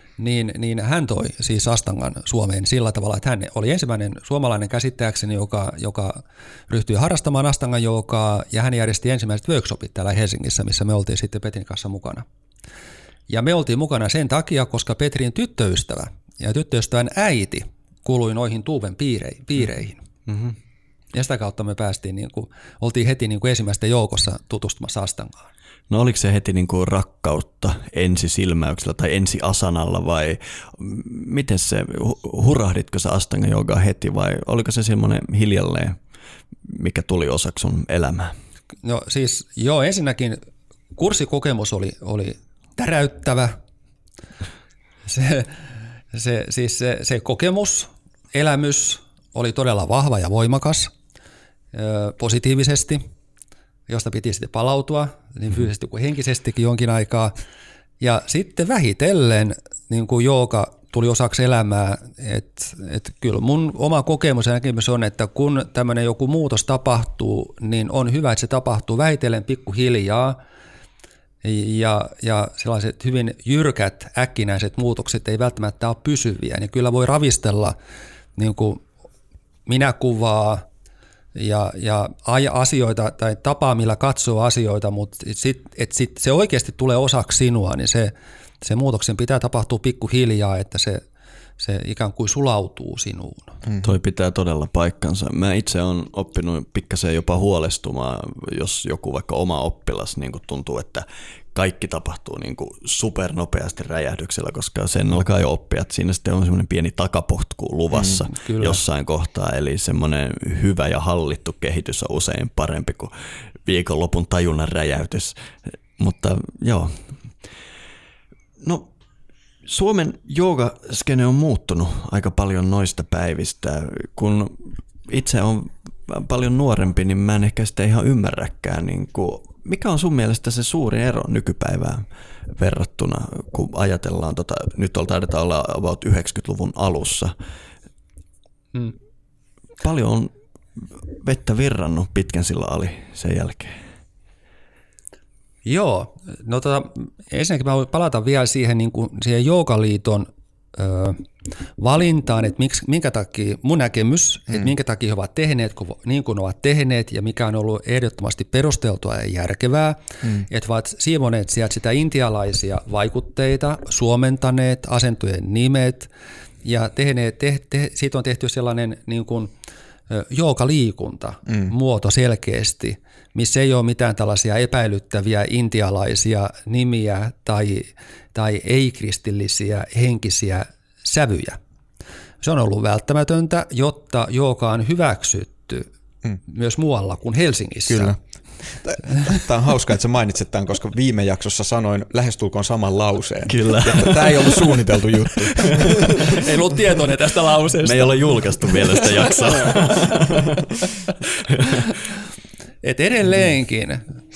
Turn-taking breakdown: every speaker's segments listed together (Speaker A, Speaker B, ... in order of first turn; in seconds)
Speaker A: 0.2-12.2, 13.3-20.0, 21.1-25.5, 38.8-40.4, 41.0-43.6, 45.1-45.5, 46.1-50.9, 51.7-53.0, 53.9-57.4, 58.0-70.4, 71.4-77.7, 78.4-78.8, 79.7-80.6, 81.3-91.0, 91.6-93.6, 108.2-108.8, 145.6-151.2, 151.8-166.1, 166.6-169.5, 170.1-181.6, 182.4-185.9, 186.4-188.1, 196.3-200.1, 202.8-204.0
Speaker B: 20.3-20.5, 25.9-36.0, 36.6-38.3, 93.8-113.1, 113.6-117.2, 118.6-118.9, 119.7-137.3, 139.8-143.8, 193.5-194.8, 195.6-195.9, 197.8-200.7
Speaker C: 187.9-196.4